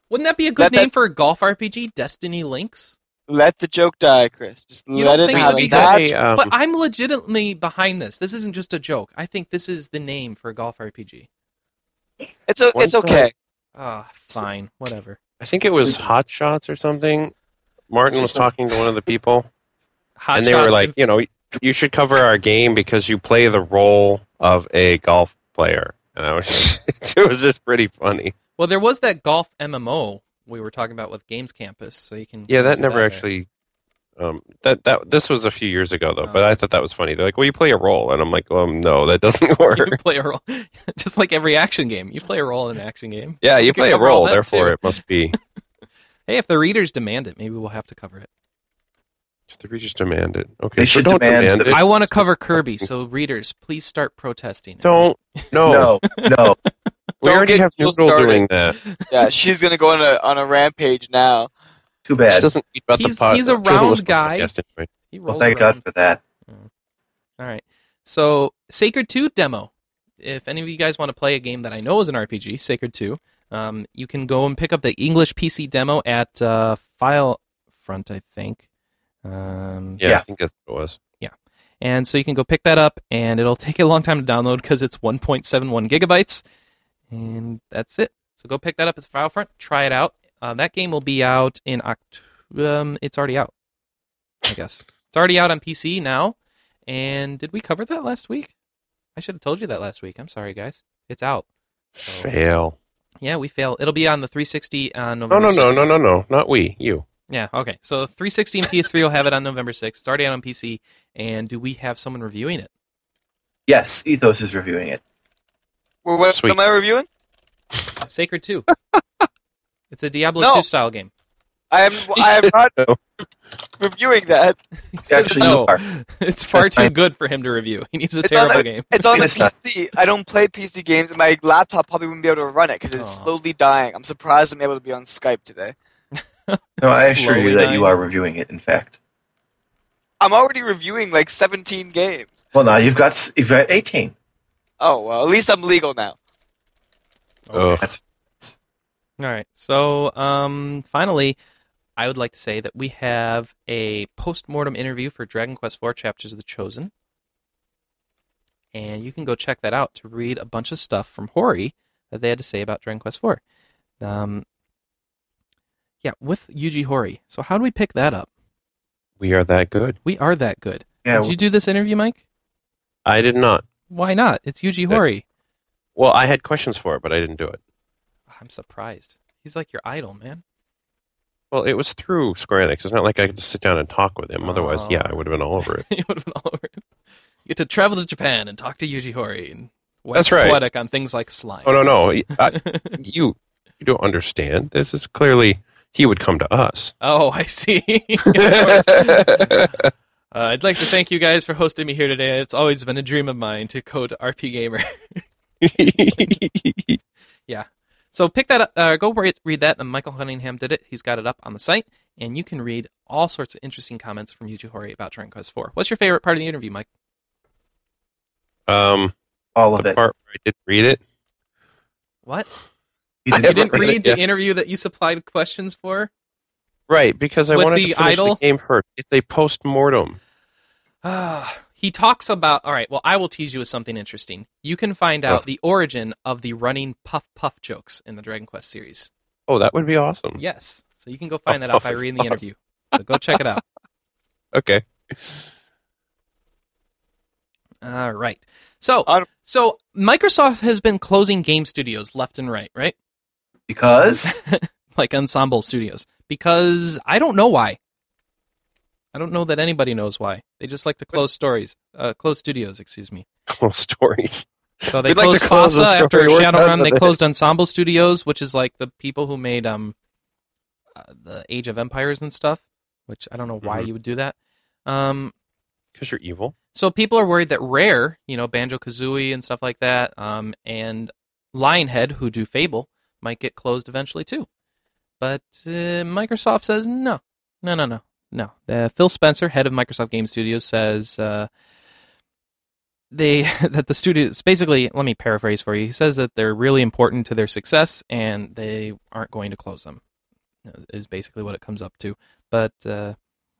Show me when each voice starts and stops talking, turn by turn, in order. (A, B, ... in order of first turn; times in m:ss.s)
0:00.1-0:03.0 A
0:00.6-0:00.9 B
0:03.3-0:06.1 B
0:04.9-0:11.3 A
0:05.3-0:06.5 C
0:12.5-0:13.3 B
0:12.8-0:13.2 C
0:13.8-0:15.2 A
0:15.4-0:17.3 C
0:15.8-0:16.1 A
0:17.9-0:19.5 C
0:20.2-0:21.0 A
0:20.3-0:28.3 C
0:28.6-0:33.2 A
0:32.5-0:33.5 C
0:34.2-0:40.0 C
0:39.7-0:44.8 A
0:43.4-0:45.4 C
0:46.3-0:48.3 A
0:49.5-0:52.8 C
0:50.8-0:51.8 D
0:51.6-0:55.5 A
0:54.8-0:56.0 C
0:55.6-0:56.6 D
0:56.1-0:56.7 A
0:57.2-0:58.8 C
0:57.2-0:58.4 B
0:58.8-0:59.1 A
0:59.1-1:01.5 B
1:02.0-1:02.5 D
1:02.3-1:04.9 C
1:02.9-1:04.5 A
1:05.1-1:05.8 A
1:05.3-1:06.2 D
1:07.4-1:18.6 A
1:19.2-1:20.0 A
1:20.0-1:21.0 C
1:21.2-1:26.4 A
1:27.1-1:33.5 A
1:34.4-1:36.4 A
1:36.9-1:38.5 A
1:39.2-1:41.4 A
1:42.0-1:42.3 A
1:42.0-1:42.8 C
1:43.2-1:45.9 A
1:45.3-1:47.0 C
1:47.3-1:52.7 A
1:53.7-1:55.0 D
1:56.0-1:57.1 B
1:56.3-1:56.6 C
1:58.0-1:58.7 A
1:59.9-2:01.1 A
2:00.4-2:00.6 B
2:01.7-2:02.8 B
2:02.1-2:03.0 C
2:03.8-2:04.6 B
2:04.9-2:09.0 A
2:05.1-2:05.8 D
2:06.5-2:06.9 D
2:08.2-2:15.7 B
2:09.1-2:09.5 D
2:12.9-2:13.3 A
2:16.5-2:17.9 A
2:16.8-2:19.0 D
2:20.2-2:22.4 B
2:22.5-2:24.1 D
2:24.8-2:26.2 B
2:27.5-2:27.8 A
2:27.5-2:27.9 C
2:27.8-2:28.6 D
2:29.2-2:31.4 A
2:32.0-2:36.9 A
2:38.7-2:43.4 A
2:44.0-2:44.4 A
2:46.0-2:48.3 A
2:49.2-2:50.0 C
2:50.0-2:52.2 A
2:51.0-2:51.3 D
2:53.0-2:53.6 C
2:53.9-2:55.2 A
2:56.0-2:57.6 C
2:58.3-3:00.4 A
3:01.5-3:05.8 C
3:04.4-3:06.8 A
3:07.4-3:13.0 A
3:10.1-3:10.6 C
3:11.6-3:16.9 C
3:17.0-3:19.7 A
3:18.3-3:19.9 C
3:20.3-3:25.2 A
3:25.6-3:27.0 C
3:27.5-3:36.9 A
3:38.7-3:39.1 C
3:39.6-3:40.0 D
3:39.8-3:41.0 C
3:43.2-3:43.9 D
3:43.3-3:44.2 C
3:43.3-3:46.1 A
3:46.9-3:50.2 C
3:47.5-3:48.4 A
3:51.0-3:59.1 A
3:59.5-4:00.4 C
4:00.4-4:03.6 A
4:01.5-4:02.4 C
4:04.5-4:05.1 C
4:07.8-4:13.0 A
4:13.7-4:14.4 D
4:14.0-4:17.8 A
4:19.1-4:23.2 A
4:23.5-4:27.2 C
4:24.9-4:29.9 A
4:31.0-4:34.3 A
4:33.6-4:33.9 C
4:34.8-4:35.3 A
4:36.0-4:36.5 C
4:36.7-4:44.5 A
4:45.2-4:51.5 A
4:53.1-5:00.0 A
5:00.6-5:03.2 A